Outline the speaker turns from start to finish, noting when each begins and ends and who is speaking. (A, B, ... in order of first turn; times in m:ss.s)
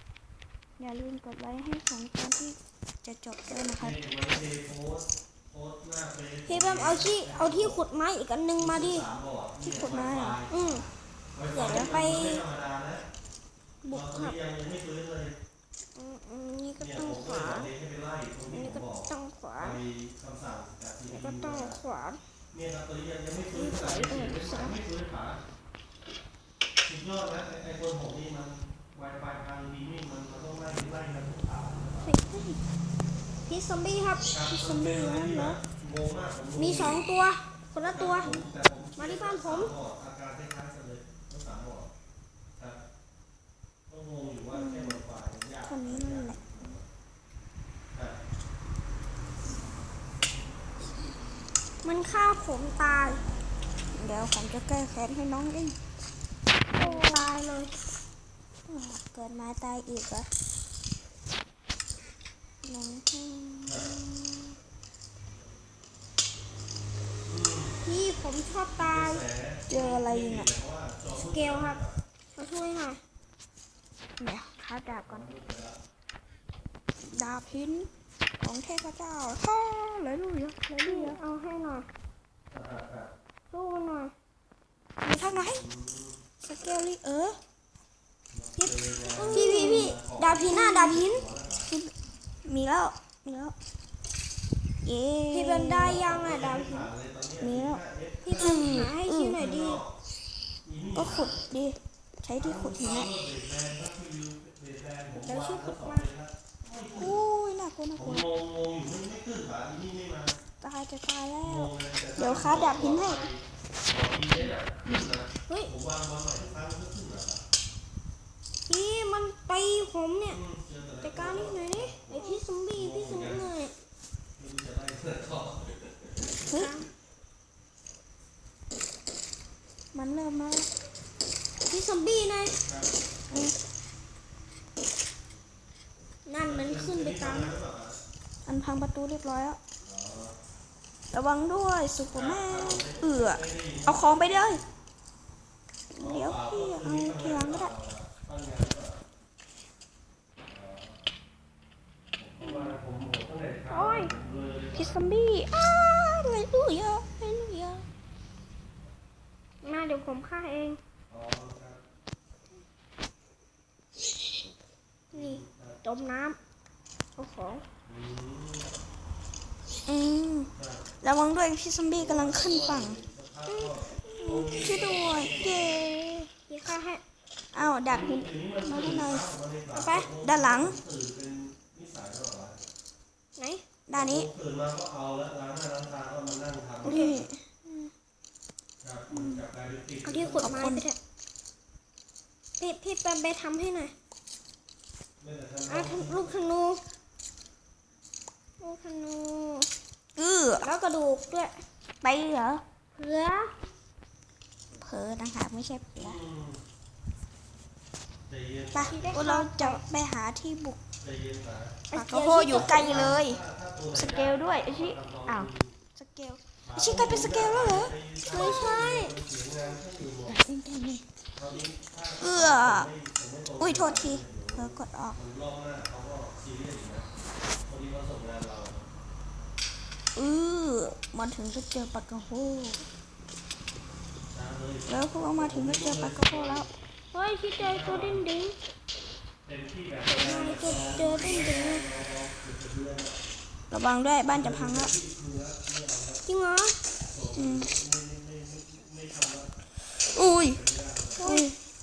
0:00.8-0:04.0 A
0:03.8-0:07.8 B
0:06.4-0:09.0 C
0:08.6-0:13.0 B
0:09.6-0:10.4 A
0:10.5-0:10.8 C
0:11.5-0:12.4 C
0:11.6-0:11.9 A
0:13.8-0:14.4 C
0:13.9-0:15.4 B
0:15.9-0:17.7 C
0:16.8-0:21.8 B
0:18.5-0:19.8 C
0:21.1-0:22.2 C
0:22.5-0:25.4 B
0:23.5-0:24.8 C
0:26.8-0:32.1 B
0:32.0-0:32.4 C
0:33.4-0:34.3 C
0:34.3-0:37.0 B
0:34.4-0:35.6 A
0:36.6-0:39.7 C
0:37.8-0:41.9 B
0:43.9-0:46.9 B
0:44.5-0:45.0 A
0:45.6-0:46.8 A
0:47.9-0:48.2 B
0:51.8-0:53.2 C
0:53.9-0:55.8 A
0:56.7-0:57.7 C
0:56.8-0:57.3 A
0:58.7-1:00.3 A
1:02.6-1:04.5 A
1:03.6-1:04.0 B
1:07.2-1:07.8 B
1:07.8-1:09.2 C
1:08.8-1:12.0 B
1:09.7-1:10.5 A
1:11.1-1:11.8 C
1:12.4-1:13.0 C
1:14.2-1:15.2 A
1:15.0-1:15.8 B
1:17.0-1:17.9 A
1:18.4-1:21.2 A
1:20.8-1:21.9 C
1:22.5-1:23.1 B
1:23.5-1:24.1 C
1:25.0-1:25.6 A
1:25.2-1:26.2 B
1:26.4-1:27.4 A
1:28.3-1:31.7 B
1:28.6-1:31.2 C
1:29.3-1:29.9 A
1:30.5-1:31.0 A
1:31.7-1:33.5 A
1:34.8-1:36.1 A
1:35.3-1:36.9 C
1:35.8-1:38.9 B
1:37.4-1:37.8 A
1:38.2-1:39.8 C
1:38.3-1:39.4 A
1:39.4-1:39.9 B
1:40.6-1:41.4 B
1:40.9-1:43.1 A
1:42.4-1:47.2 B
1:45.2-1:46.1 C
1:46.9-1:48.3 A
1:47.9-1:50.3 B
1:50.6-1:51.7 A
1:51.4-1:57.4 B
1:52.2-1:53.2 C
1:58.7-2:00.4 C
2:00.2-2:03.5 B
2:01.0-2:03.7 C
2:04.4-2:06.5 B
2:06.5-2:06.7 A
2:06.5-2:06.9 C
2:09.9-2:10.7 A
2:11.7-2:12.6 C
2:12.6-2:12.9 B
2:16.2-2:17.5 C
2:16.4-2:18.0 B
2:18.4-2:19.6 A
2:19.8-2:20.4 B
2:21.1-2:24.6 A
2:22.1-2:24.7 B
2:25.9-2:27.7 A
2:26.0-2:29.0 B
2:30.4-2:31.0 B
2:32.2-2:35.0 B
2:33.7-2:34.1 C
2:34.7-2:37.8 A
2:39.6-2:40.8 C
2:41.1-2:41.8 B
2:45.1-2:46.4 C
2:45.1-2:45.8 B
2:47.2-2:47.6 C
2:47.8-2:48.7 B
2:49.9-2:53.0 A
2:50.5-2:50.8 B
2:51.9-2:55.8 B
2:53.5-2:54.1 C
2:54.2-2:56.3 A
2:56.5-2:57.0 C
2:57.5-2:59.2 A
2:57.6-3:02.6 B
2:59.7-3:00.1 C
3:00.2-3:00.8 A
3:03.4-3:03.6 C
3:03.9-3:04.3 A
3:03.9-3:07.3 B
3:06.8-3:07.3 A
3:06.8-3:07.7 C
3:08.8-3:10.7 B
3:10.0-3:11.0 C
3:10.4-3:10.8 A
3:12.6-3:13.9 C
3:15.2-3:16.3 B
3:15.7-3:16.8 C
3:18.6-3:19.7 C
3:20.2-3:20.7 A
3:20.6-3:21.6 C
3:22.0-3:22.6 A
3:22.9-3:23.5 C
3:24.8-3:26.2 A
3:26.0-3:26.6 B
3:28.3-3:29.3 B
3:28.7-3:29.8 C
3:29.1-3:30.8 A
3:31.0-3:31.8 B
3:31.9-3:33.2 C
3:31.9-3:33.4 A
3:32.5-3:35.7 B
3:33.9-3:38.6 A
3:36.6-3:40.4 B
3:38.3-3:39.1 C
3:40.3-3:41.0 A
3:41.3-3:47.1 B
3:42.2-3:42.9 A
3:43.6-3:45.2 A
3:47.6-3:48.8 B
3:50.1-3:52.8 A
3:54.3-3:56.7 B
3:54.9-3:56.7 A
3:57.1-3:58.5 C
3:57.6-3:58.3 B
3:59.4-4:03.2 B
4:00.0-4:01.8 C
4:03.7-4:04.9 A
4:04.3-4:06.2 B
4:06.2-4:06.8 C
4:07.1-4:09.5 B
4:07.4-4:07.7 A
4:10.1-4:10.6 A
4:10.5-4:11.3 B
4:11.2-4:11.5 C
4:11.2-4:11.6 A